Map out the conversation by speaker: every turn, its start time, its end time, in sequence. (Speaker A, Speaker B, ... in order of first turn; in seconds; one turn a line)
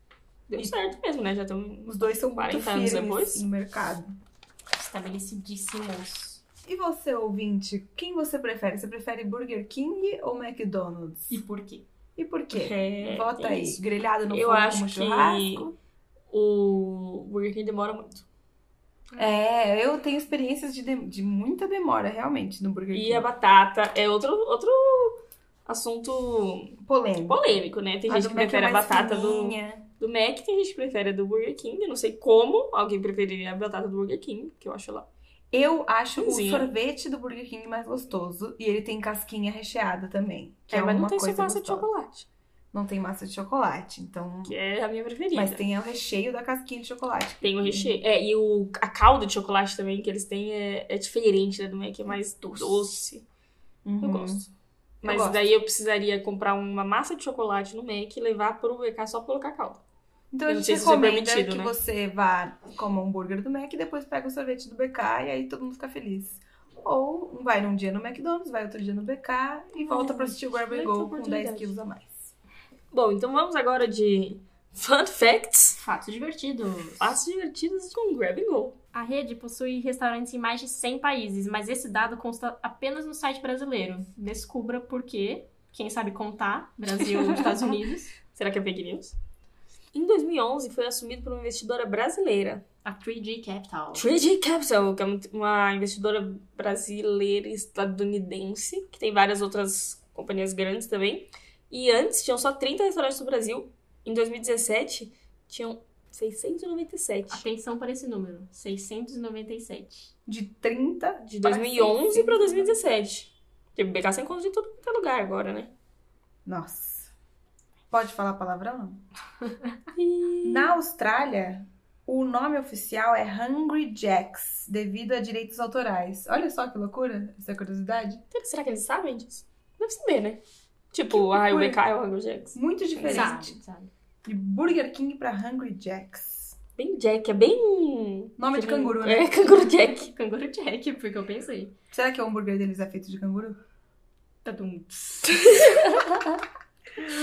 Speaker A: 0.5-3.4
Speaker B: 1.9-4.2
Speaker C: 4.7-6.4
Speaker B: 6.6-11.4
Speaker C: 11.3-11.8
Speaker B: 12.2-15.7
Speaker A: 12.5-15.7
Speaker A: 16.3-18.2
Speaker B: 19.2-23.3
Speaker A: 22.9-35.1
Speaker B: 26.8-27.4
Speaker B: 28.1-29.9
Speaker B: 35.5-41.9
Speaker A: 36.1-36.7
Speaker A: 40.7-42.3
Speaker B: 42.7-44.5
Speaker A: 44.4-45.6
Speaker B: 45.3-48.0
Speaker A: 47.4-53.2
Speaker C: 52.4-52.9
Speaker B: 53.8-54.4
Speaker A: 54.0-54.5
Speaker A: 55.0-59.8
Speaker B: 55.0-55.5
Speaker B: 60.3-72.3
Speaker A: 60.5-61.7
Speaker A: 69.8-71.7
Speaker A: 72.9-75.8
Speaker C: 75.8-77.2
Speaker A: 77.0-78.8
Speaker C: 78.9-88.1
Speaker A: 87.2-87.6
Speaker A: 88.3-89.1
Speaker A: 89.9-92.6
Speaker C: 92.8-94.0
Speaker A: 93.9-107.4
Speaker C: 107.3-110.1
Speaker B: 110.2-112.8
Speaker A: 111.2-115.7
Speaker B: 116.5-117.1
Speaker B: 117.9-119.0
Speaker A: 119.9-120.7
Speaker B: 120.4-128.2
Speaker A: 128.3-130.4
Speaker A: 130.9-133.3
Speaker B: 131.1-131.8
Speaker B: 132.5-133.6
Speaker C: 133.1-133.9
Speaker B: 134.2-136.6
Speaker A: 136.8-140.1
Speaker B: 138.4-139.3
Speaker C: 140.0-141.7
Speaker B: 141.9-143.6
Speaker C: 144.4-145.7
Speaker A: 145.5-146.1